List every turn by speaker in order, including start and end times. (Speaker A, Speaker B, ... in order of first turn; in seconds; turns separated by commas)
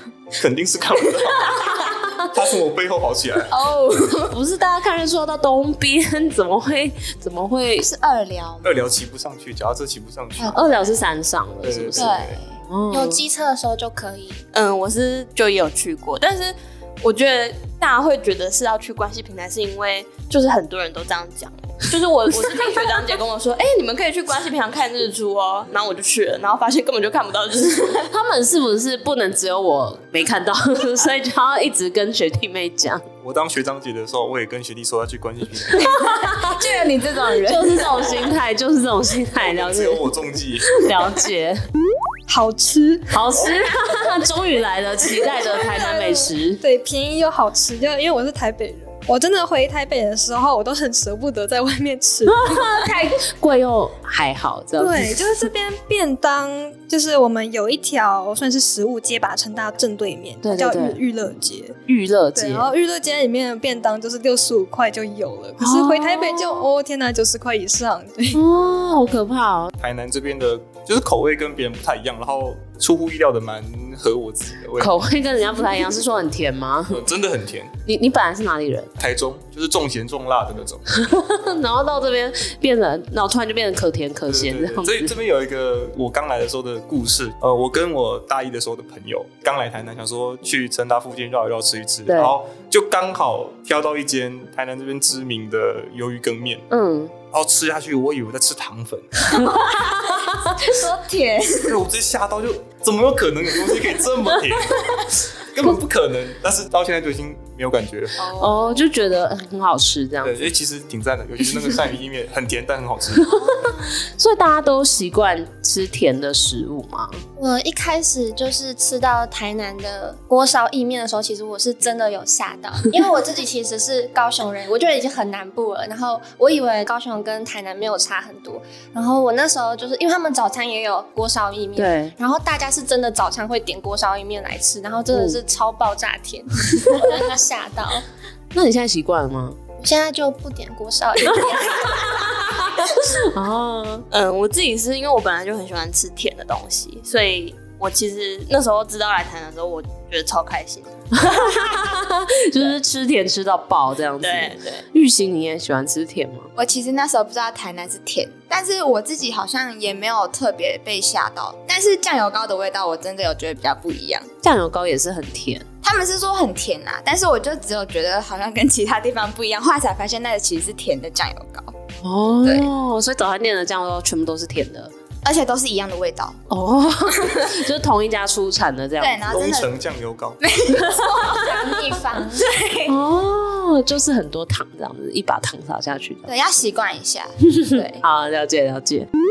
Speaker A: 0.4-3.6, Speaker B: 3.5-4.3, Speaker C: 4.3-7.9, Speaker B: 7.8-8.9, Speaker A: 8.6-10.9, Speaker B: 10.4-10.6, Speaker C: 10.5-13.2, Speaker A: 11.6-12.3, Speaker B: 12.0-12.5, Speaker D: 12.9-14.4, Speaker E: 14.5-28.1, Speaker C: 28.1-33.0, Speaker A: 33.2-35.9, Speaker B: 35.7-38.2, Speaker C: 37.4-40.1, Speaker A: 39.4-40.8, Speaker C: 40.7-41.6, Speaker F: 42.3-43.3, Speaker C: 43.1-46.6, Speaker F: 45.1-52.9, Speaker C: 52.2-55.4, Speaker F: 54.8-61.8, Speaker C: 60.4-61.0, Speaker C: 61.9-62.7, Speaker F: 62.3-68.5, Speaker C: 65.6-66.7, Speaker C: 68.3-69.7, Speaker A: 69.8-74.9, Speaker C: 74.8-77.0, Speaker A: 76.9-77.7, Speaker C: 77.9-78.9, Speaker A: 79.0-80.9, Speaker C: 80.9-85.1, Speaker A: 84.3-96.7, Speaker C: 92.1-92.3, Speaker C: 96.7-97.1, Speaker A: 97.3-99.3, Speaker B: 99.4-101.8, Speaker A: 101.7-108.2, Speaker B: 108.2-108.8, Speaker C: 108.4-110.5, Speaker A: 110.2-113.4, Speaker C: 113.2-117.2, Speaker D: 117.4-138.0, Speaker C: 131.8-132.1, Speaker C: 135.1-135.4, Speaker C: 138.5-139.6, Speaker D: 139.8-142.4, Speaker C: 142.0-144.1, Speaker E: 144.1-150.9, Speaker C: 151.1-156.5, Speaker E: 154.2-154.8, Speaker B: 156.6-164.3, Speaker C: 164.4-165.7, Speaker B: 165.8-171.7, Speaker C: 172.0-174.9, Speaker B: 172.4-172.7, Speaker B: 175.2-176.4, Speaker C: 176.5-179.4, Speaker B: 179.0-179.7, Speaker A: 179.3-180.4, Speaker B: 180.4-181.6, Speaker C: 181.0-181.3, Speaker D: 181.2-182.4, Speaker B: 182.3-182.9, Speaker C: 182.9-186.3, Speaker B: 186.3-187.3, Speaker C: 187.6-189.1, Speaker D: 187.7-188.0